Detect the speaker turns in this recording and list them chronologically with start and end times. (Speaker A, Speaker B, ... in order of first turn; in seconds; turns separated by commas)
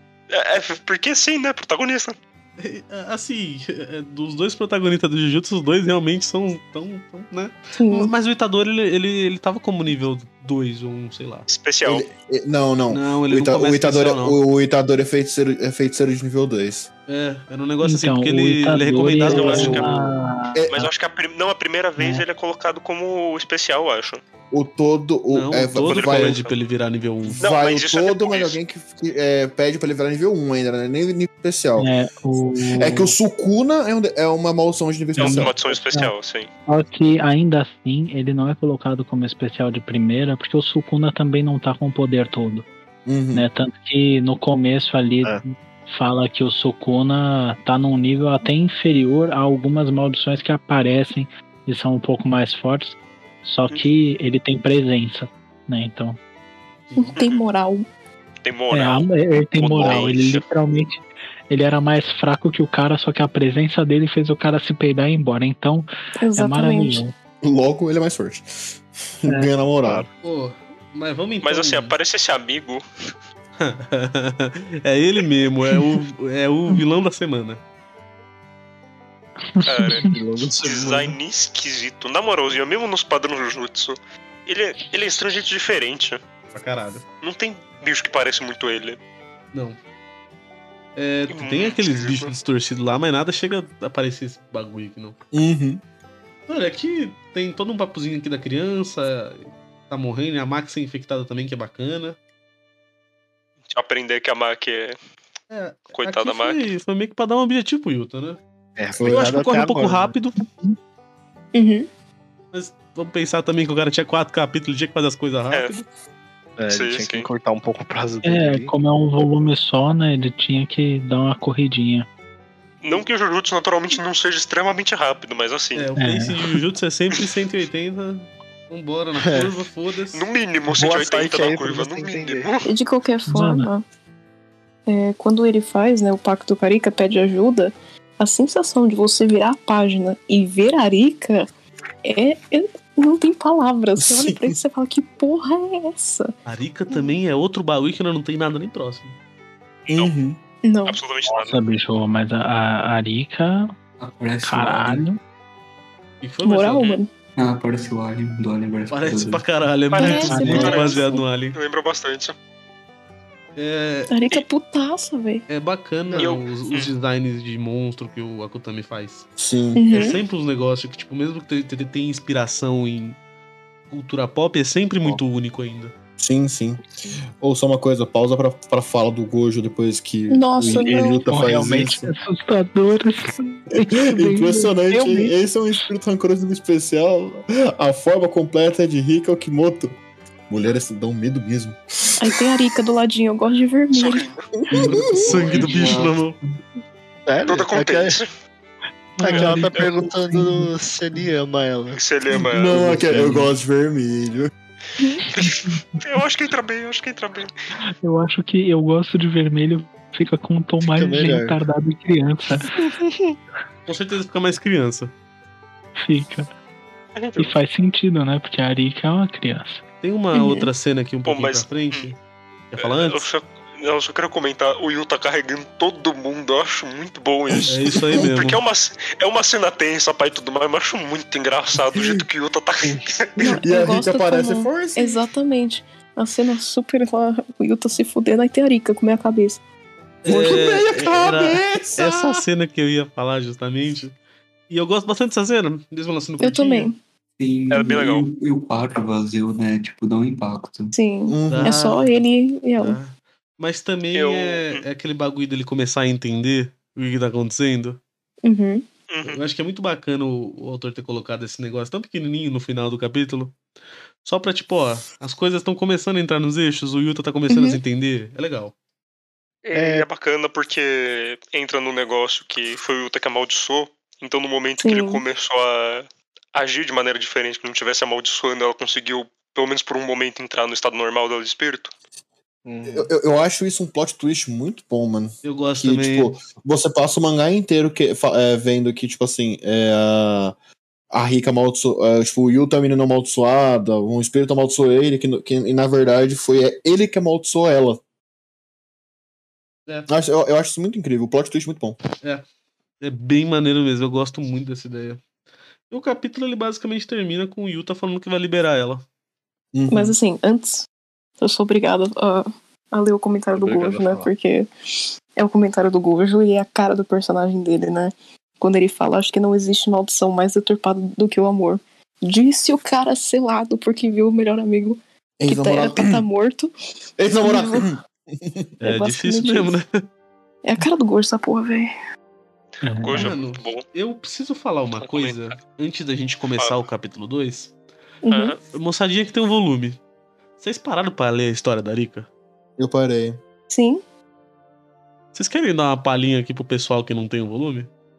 Speaker A: 0.3-2.1, Speaker B: 2.6-11.5, Speaker C: 7.7-8.1, Speaker A: 11.5-12.1, Speaker D: 11.8-16.9, Speaker B: 12.9-14.4, Speaker B: 17.1-19.9, Speaker E: 17.8-20.9, Speaker A: 19.2-19.9, Speaker D: 20.5-20.9, Speaker A: 20.7-24.2, Speaker E: 22.0-22.2, Speaker D: 24.5-26.4, Speaker B: 25.3-27.4, Speaker A: 25.8-26.5, Speaker D: 27.2-31.9, Speaker A: 27.4-28.6, Speaker E: 31.8-33.1, Speaker D: 32.7-35.5, Speaker A: 35.2-36.5, Speaker E: 35.2-36.1, Speaker E: 36.7-42.7, Speaker D: 43.0-43.5, Speaker E: 43.3-56.2, Speaker B: 56.9-57.1, Speaker C: 57.0-57.9, Speaker A: 57.1-57.4, Speaker A: 58.4-60.4, Speaker E: 58.7-67.1, Speaker C: 66.2-67.0, Speaker D: 67.4-70.0, Speaker B: 70.2-71.9, Speaker A: 71.4-72.8, Speaker B: 73.6-77.6, Speaker E: 79.5-80.1, Speaker A: 79.6-80.0, Speaker F: 80.0-81.1, Speaker A: 80.6-86.2, Speaker B: 86.5-87.0, Speaker A: 87.2-89.0, Speaker B: 89.5-89.8, Speaker B: 91.0-95.2, Speaker A: 91.3-92.3, Speaker D: 95.3-95.8, Speaker B: 96.5-102.2, Speaker A: 103.7-105.0, Speaker B: 105.5-108.4, Speaker A: 105.9-106.6, Speaker F: 108.8-110.1, Speaker D: 109.0-109.4, Speaker B: 109.1-110.4, Speaker C: 111.5-111.9, Speaker B: 112.5-115.8, Speaker F: 116.6-118.7, Speaker A: 116.7-117.3, Speaker E: 118.2-122.1, Speaker A: 122.8-125.9, Speaker B: 125.7-130.2, Speaker E: 126.0-126.5, Speaker F: 129.2-129.5, Speaker A: 130.1-132.7, Speaker F: 130.7-132.5, Speaker C: 132.6-133.8, Speaker E: 133.3-133.7, Speaker C: 134.9-141.5, Speaker C: 142.0-146.3, Speaker D: 144.0-144.5, Speaker B: 146.4-149.2, Speaker D: 149.9-150.4, Speaker C: 150.6-151.0, Speaker A: 150.9-151.6, Speaker E: 151.3-153.7, Speaker G: 154.0-155.0, Speaker E: 154.4-155.2, Speaker B: 156.2-156.9, Speaker C: 156.4-157.1, Speaker G: 157.4-159.4, Speaker B: 158.9-161.6, Speaker A: 159.9-162.3, Speaker C: 160.0-161.2, Speaker E: 160.2-160.8, Speaker B: 163.6-164.1, Speaker C: 164.1-165.4, Speaker B: 165.5-169.2, Speaker A: 166.1-166.9, Speaker D: 169.4-169.8, Speaker C: 169.8-170.2, Speaker B: 169.9-173.2, Speaker B: 173.9-175.9, Speaker D: 176.2-176.8, Speaker D: 177.4-182.1, Speaker C: 180.3-181.2, Speaker E: 181.3-185.3, Speaker D: 183.8-189.9, Speaker D: 190.5-192.3, Speaker C: 192.2-194.2, Speaker A: 193.9-194.4, Speaker D: 194.7-195.5, Speaker B: 194.9-196.4, Speaker G: 195.0-196.2, Speaker F: 197.3-198.2, Speaker A: 197.4-198.3, Speaker E: 199.2-200.7, Speaker F: 199.2-202.0, Speaker A: 201.9-202.9, Speaker D: 202.3-204.5, Speaker A: 205.3-207.5, Speaker E: 208.0-212.8, Speaker F: 210.8-211.6, Speaker F: 212.8-213.3, Speaker B: 213.9-215.1, Speaker E: 216.0-216.5, Speaker A: 217.2-217.6, Speaker E: 217.4-219.8, Speaker B: 220.0-222.2, Speaker C: 220.3-220.7, Speaker A: 221.2-222.1, Speaker B: 222.7-223.2, Speaker A: 222.8-233.6, Speaker B: 227.7-228.6, Speaker D: 231.9-232.2, Speaker C: 233.4-239.6, Speaker D: 233.6-235.2, Speaker B: 240.2-244.1, Speaker D: 240.3-242.4, Speaker B: 244.7-246.9, Speaker C: 246.4-247.0, Speaker G: 247.4-250.9, Speaker A: 247.7-248.2, Speaker C: 250.9-253.0, Speaker D: 251.3-251.8, Speaker B: 251.5-252.2, Speaker B: 252.8-258.0, Speaker A: 254.1-254.8, Speaker C: 258.4-258.8, Speaker A: 259.1-259.4, Speaker B: 259.2-263.6, Speaker B: 264.2-268.7, Speaker C: 267.5-267.8, Speaker A: 269.6-281.9, Speaker F: 269.7-270.1, Speaker C: 274.8-275.2, Speaker F: 282.6-283.1, Speaker D: 282.9-290.5, Speaker B: 285.4-286.3, Speaker D: 291.1-298.0, Speaker D: 300.1-302.0, Speaker B: 303.0-305.2, Speaker B: 305.9-309.0, Speaker D: 309.7-310.1, Speaker C: 309.9-310.9, Speaker C: 311.4-314.7, Speaker F: 313.5-314.3, Speaker C: 315.4-326.7, Speaker D: 325.4-326.2, Speaker D: 327.2-328.7, Speaker C: 327.4-327.9, Speaker B: 328.8-330.0, Speaker C: 328.8-329.8, Speaker C: 330.6-331.9, Speaker E: 332.8-333.3, Speaker A: 332.9-333.8, Speaker B: 333.1-337.7, Speaker A: 335.0-335.5, Speaker C: 338.2-338.5, Speaker A: 338.3-338.6, Speaker B: 338.7-340.0, Speaker B: 340.6-342.3, Speaker D: 342.8-343.4, Speaker C: 343.7-344.0, Speaker B: 345.3-347.9